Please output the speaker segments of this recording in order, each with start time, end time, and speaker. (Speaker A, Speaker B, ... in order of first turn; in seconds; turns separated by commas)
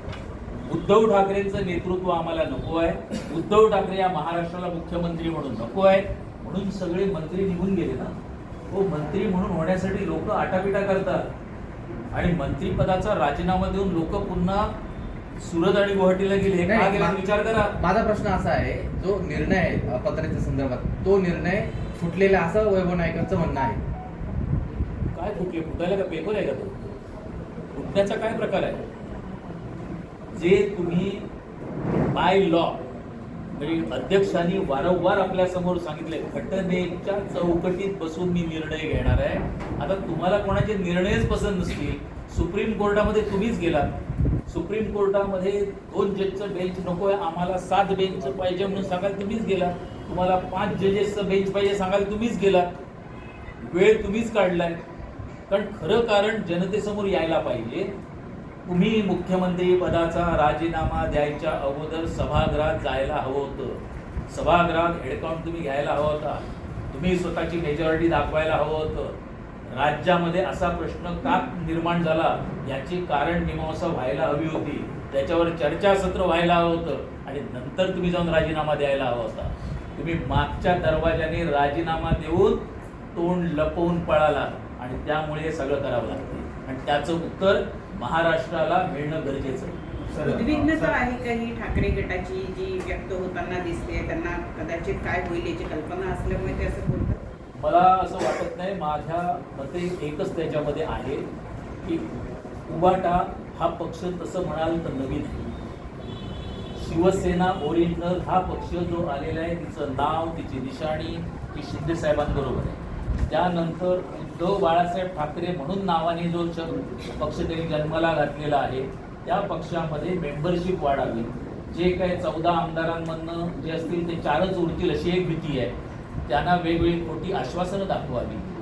Speaker A: 0.7-8.1, Speaker A: 8.7-11.2, Speaker A: 12.1-14.7, Speaker A: 15.4-17.8, Speaker B: 16.7-23.8, Speaker A: 25.1-26.7, Speaker A: 27.7-28.8, Speaker A: 30.3-31.2, Speaker A: 32.1-32.8, Speaker A: 33.5-43.9, Speaker A: 44.5-52.7, Speaker A: 53.6-54.8, Speaker A: 55.5-57.9, Speaker A: 58.7-69.2, Speaker A: 69.7-90.3, Speaker B: 90.1-90.8, Speaker C: 90.2-97.2, Speaker A: 97.6-101.3, Speaker A: 102.7-105.4, Speaker A: 106.8-125.7, Speaker A: 126.3-128.4